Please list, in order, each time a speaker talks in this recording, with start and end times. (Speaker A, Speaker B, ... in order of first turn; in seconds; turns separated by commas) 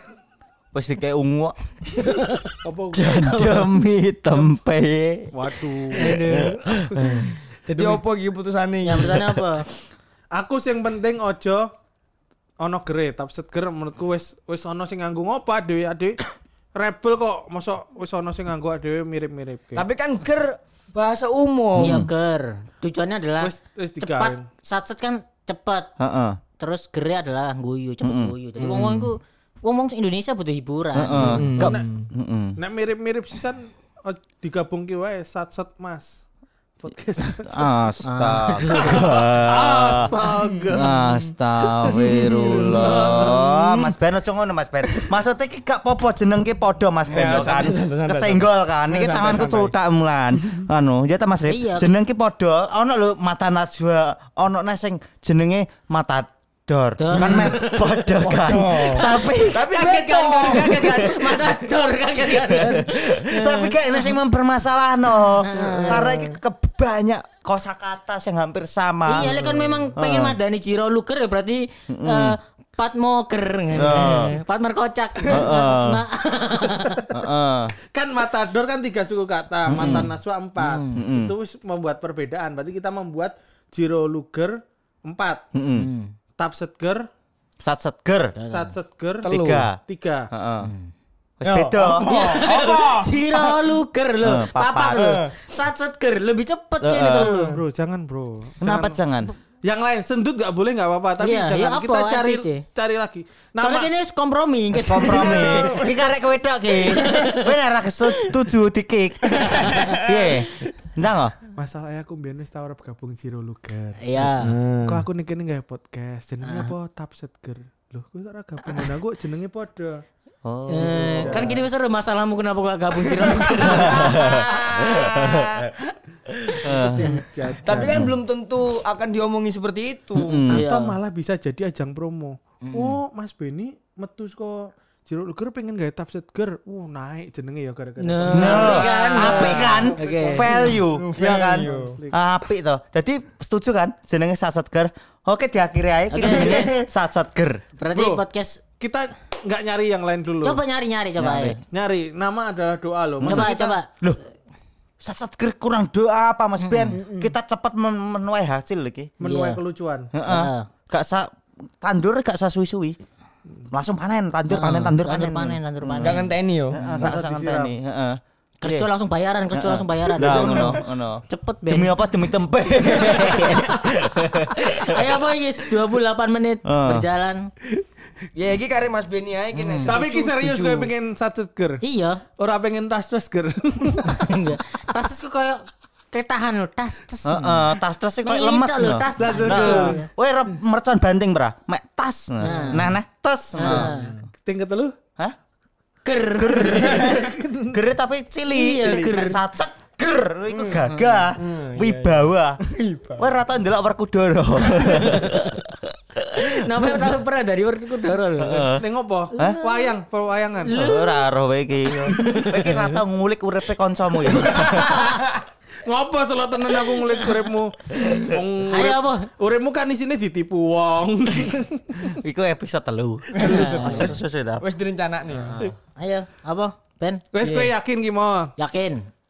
Speaker A: 0.7-2.1, Speaker B: 2.0-2.6, Speaker C: 2.6-3.3, Speaker A: 2.9-7.3, Speaker B: 3.1-3.7, Speaker C: 5.3-6.2, Speaker B: 6.0-6.7, Speaker D: 7.0-9.4, Speaker B: 8.8-9.7, Speaker C: 10.3-11.7, Speaker C: 12.6-16.2, Speaker C: 16.8-19.9, Speaker D: 19.8-22.1, Speaker A: 21.8-22.1, Speaker B: 21.8-25.9, Speaker C: 23.4-24.5, Speaker A: 26.0-26.4, Speaker B: 26.6-31.5, Speaker A: 28.0-28.4, Speaker D: 28.6-29.1, Speaker A: 30.9-32.6, Speaker D: 31.1-32.0, Speaker C: 31.6-31.9, Speaker C: 32.6-36.2, Speaker C: 36.8-38.0, Speaker A: 37.5-40.1, Speaker B: 38.0-39.1, Speaker C: 38.7-41.0, Speaker A: 40.7-59.7, Speaker D: 41.9-44.0, Speaker C: 42.5-43.5, Speaker D: 47.1-49.8, Speaker B: 51.5-51.9, Speaker B: 57.0-64.2, Speaker D: 57.1-57.5, Speaker D: 58.2-61.1, Speaker A: 60.7-61.6, Speaker A: 62.2-70.4, Speaker B: 65.4-66.1, Speaker D: 65.6-66.4, Speaker B: 69.1-77.1, Speaker A: 71.9-72.4, Speaker A: 73.8-74.3, Speaker A: 75.3-76.0, Speaker A: 77.1-77.8, Speaker C: 77.9-85.5, Speaker A: 79.7-80.1, Speaker B: 79.8-81.0, Speaker A: 80.9-81.3, Speaker A: 85.5-85.9, Speaker B: 85.7-86.1, Speaker C: 86.4-87.1, Speaker A: 87.6-88.3, Speaker B: 88.4-88.7, Speaker C: 88.5-90.3, Speaker D: 89.2-89.7, Speaker A: 89.3-89.8, Speaker A: 90.3-90.7, Speaker B: 90.6-90.9, Speaker A: 91.4-92.0, Speaker D: 91.4-93.6, Speaker B: 92.0-97.6, Speaker A: 94.2-95.2, Speaker D: 95.0-95.3, Speaker A: 96.8-97.3, Speaker C: 97.4-99.0, Speaker A: 98.6-99.3, Speaker C: 99.6-103.9, Speaker B: 101.2-102.6, Speaker B: 103.6-105.8, Speaker A: 104.7-111.4, Speaker D: 105.1-105.9, Speaker B: 106.9-107.5, Speaker B: 109.4-110.0, Speaker D: 109.4-109.9, Speaker C: 111.5-114.0, Speaker B: 114.0-114.5, Speaker D: 114.2-115.0, Speaker C: 114.8-120.0, Speaker B: 116.4-116.7, Speaker A: 120.5-121.6, Speaker B: 120.7-124.4, Speaker D: 121.2-121.5, Speaker D: 123.0-125.8, Speaker A: 123.6-125.7, Speaker A: 126.6-127.1, Speaker B: 126.6-127.2, Speaker C: 126.8-128.0, Speaker D: 127.6-130.5, Speaker A: 127.7-128.1, Speaker A: 130.2-130.6, Speaker C: 130.5-140.8, Speaker B: 130.5-131.0, Speaker B: 132.6-133.0, Speaker B: 138.0-140.7, Speaker A: 138.3-147.6, Speaker D: 140.6-142.0, Speaker C: 141.5-142.2, Speaker B: 146.1-146.8, Speaker B: 147.8-148.6, Speaker C: 147.9-148.2, Speaker C: 148.8-150.6, Speaker B: 150.4-151.6, Speaker A: 151.2-151.6, Speaker C: 151.7-153.8, Speaker A: 153.2-154.2, Speaker B: 153.2-153.9, Speaker A: 155.0-159.1, Speaker B: 156.6-157.3, Speaker C: 159.2-160.1, Speaker B: 159.2-159.6, Speaker A: 160.1-163.0, Speaker B: 160.2-160.7, Speaker A: 163.7-168.9, Speaker B: 164.5-166.3, Speaker D: 166.0-166.8, Speaker C: 166.9-167.8, Speaker B: 168.6-172.0, Speaker A: 169.5-175.2, Speaker D: 170.2-170.8, Speaker B: 172.8-173.7, Speaker B: 174.6-177.5, Speaker A: 176.7-177.1, Speaker D: 178.3-180.9, Speaker B: 179.6-179.9, Speaker C: 179.8-181.8, Speaker B: 181.8-182.2, Speaker C: 182.4-184.3, Speaker B: 184.1-187.7, Speaker A: 187.2-193.9, Speaker B: 188.2-190.1, Speaker C: 189.2-190.0, Speaker B: 192.4-192.9, Speaker D: 192.5-192.9, Speaker B: 193.6-194.1, Speaker D: 193.7-194.2, Speaker C: 194.3-194.9, Speaker B: 196.0-197.4, Speaker A: 196.4-202.6, Speaker C: 197.1-197.8, Speaker B: 198.5-199.4, Speaker B: 200.6-201.3, Speaker D: 201.3-203.4, Speaker A: 203.2-207.1, Speaker B: 204.8-205.4, Speaker B: 206.4-208.7, Speaker A: 208.4-208.8, Speaker C: 208.8-210.9, Speaker B: 209.3-209.9, Speaker B: 210.7-211.2, Speaker A: 210.7-215.2, Speaker B: 211.9-213.0, Speaker C: 214.3-215.3, Speaker C: 215.8-222.2, Speaker B: 217.0-217.4, Speaker A: 217.9-218.4, Speaker B: 218.7-219.3, Speaker A: 222.1-224.6, Speaker D: 223.3-225.6, Speaker B: 223.4-224.2, Speaker A: 225.5-225.7, Speaker B: 226.0-227.2, Speaker C: 227.3-228.5, Speaker D: 227.4-227.7, Speaker B: 228.6-229.1